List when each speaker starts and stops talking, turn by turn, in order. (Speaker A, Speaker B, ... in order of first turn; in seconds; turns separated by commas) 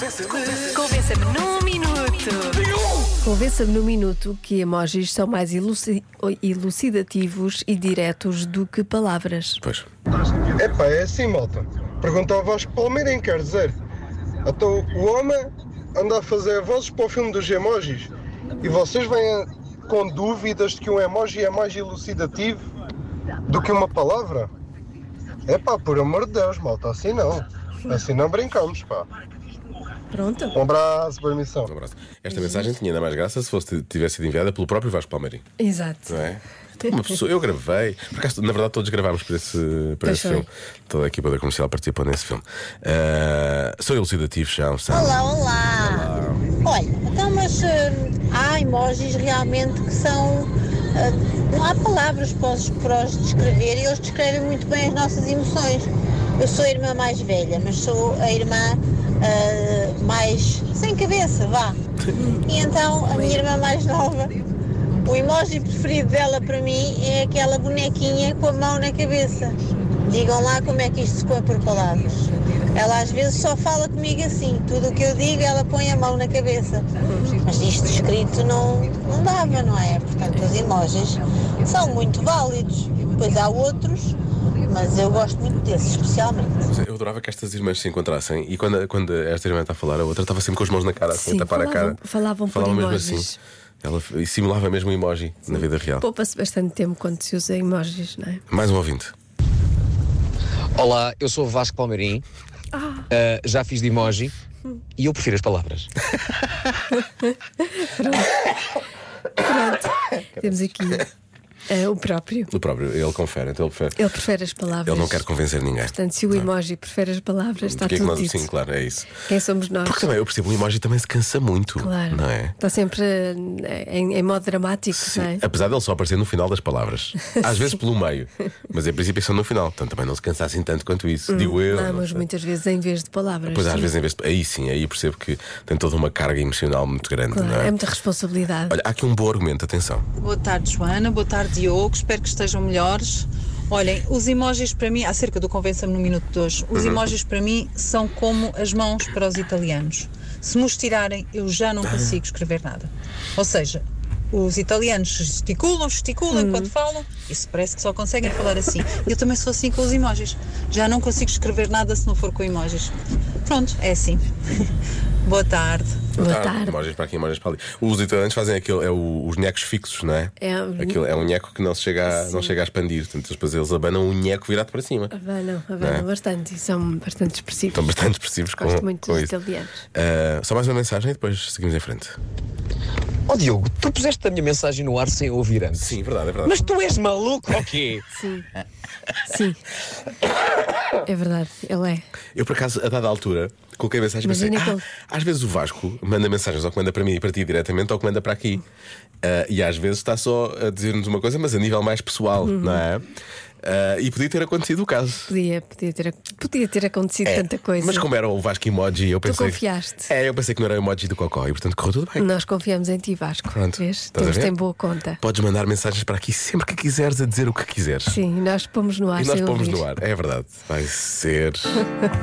Speaker A: 0.7-2.6, Speaker A: 3.2-9.6, Speaker B: 10.6-13.8, Speaker B: 14.4-22.6, Speaker B: 23.5-24.5, Speaker B: 25.5-29.1, Speaker A: 30.1-30.6, Speaker B: 30.5-31.7, Speaker C: 31.7-35.4, Speaker A: 32.3-32.8, Speaker A: 35.6-36.3, Speaker C: 36.1-45.2, Speaker A: 40.0-40.5, Speaker D: 44.9-46.1, Speaker C: 45.8-46.5, Speaker D: 46.6-61.8, Speaker D: 62.3-64.4, Speaker D: 65.0-76.9, Speaker A: 77.1-77.4, Speaker D: 77.4-86.6, Speaker C: 86.7-93.3, Speaker A: 91.1-93.4, Speaker C: 93.8-96.0, Speaker A: 95.5-98.4, Speaker C: 98.5-99.1, Speaker E: 100.8-102.2, Speaker E: 103.1-104.3, Speaker E: 105.0-105.9, Speaker A: 107.2-108.5, Speaker A: 109.4-111.1, Speaker A: 111.7-112.5, Speaker C: 112.5-114.0, Speaker A: 114.0-115.3, Speaker C: 114.8-116.5, Speaker A: 115.9-118.5, Speaker C: 117.7-119.1, Speaker A: 119.1-120.1, Speaker C: 119.8-122.5, Speaker A: 121.8-125.4, Speaker C: 124.9-132.2, Speaker A: 131.3-133.9, Speaker C: 133.5-137.8, Speaker A: 137.3-138.8, Speaker C: 138.7-140.0, Speaker F: 140.2-162.9, Speaker C: 146.8-147.0, Speaker A: 156.3-156.7, Speaker F: 163.4-164.7, Speaker F: 165.2-166.0, Speaker A: 166.2-166.8, Speaker C: 166.2-175.1, Speaker A: 170.4-171.1, Speaker A: 172.1-172.5, Speaker A: 175.1-178.0, Speaker C: 175.8-176.1, Speaker C: 177.7-179.3, Speaker A: 178.5-179.8, Speaker C: 179.9-182.2, Speaker E: 183.3-188.1, Speaker C: 185.7-186.7, Speaker A: 188.1-188.4, Speaker A: 189.2-189.6, Speaker A: 191.0-192.0, Speaker C: 192.3-198.6, Speaker A: 194.2-194.8, Speaker C: 199.2-203.0, Speaker A: 202.4-202.8, Speaker C: 203.6-205.3, Speaker A: 205.3-208.1, Speaker C: 207.2-212.3, Speaker A: 209.2-210.1, Speaker A: 212.2-215.2, Speaker C: 213.5-214.6, Speaker C: 215.2-218.2, Speaker A: 218.1-219.8, Speaker C: 219.2-221.8